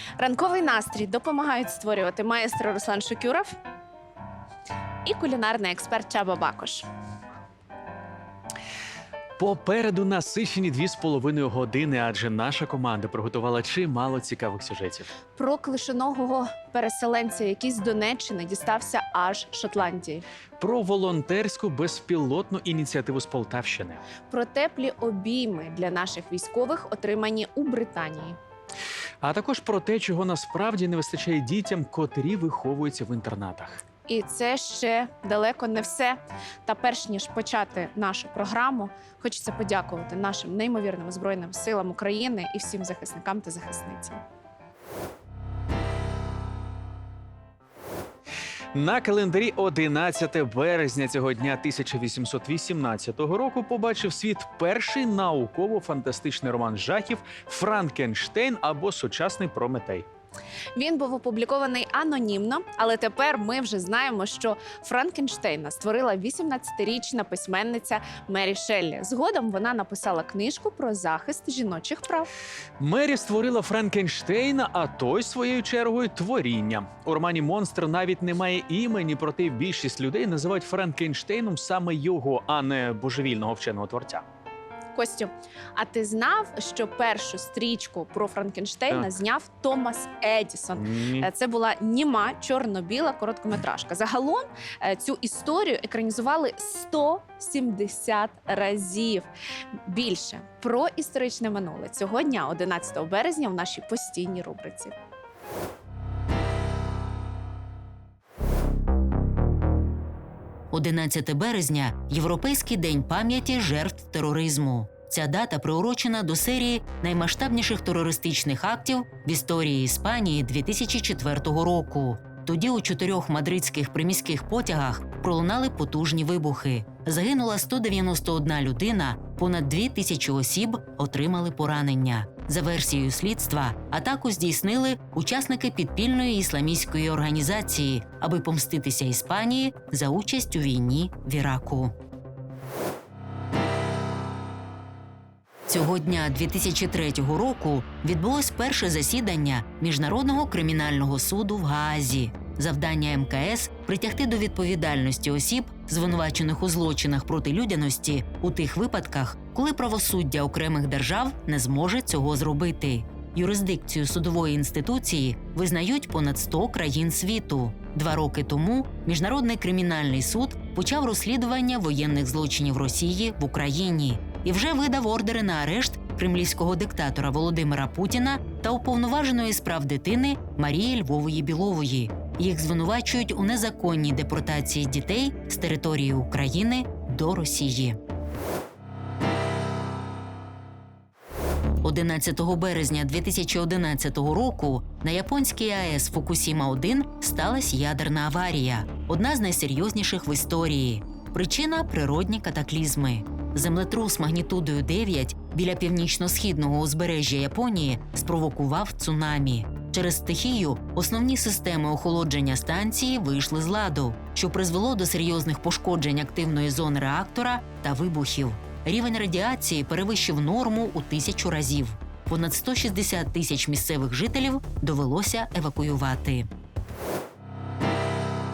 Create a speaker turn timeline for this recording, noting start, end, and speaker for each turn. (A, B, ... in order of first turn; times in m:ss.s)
0:00.2-0:03.5 A
0:05.0-0:06.9 A
0:09.4-0:15.1 B
0:15.4-0:20.2 A
0:20.6-0:24.0 B
0:24.3-0:28.4 A
0:29.2-0:33.8 B
0:34.1-0:44.2 A
0:48.7-1:00.1 B
1:00.8-1:12.3 A
1:12.8-1:24.2 B
1:25.0-1:39.3 A
1:28.9-1:29.2 B
1:30.8-1:31.3 B
1:39.9-1:44.9 A
1:50.7-2:22.0 C
2:25.7-3:08.0 C
3:11.8-3:46.5 C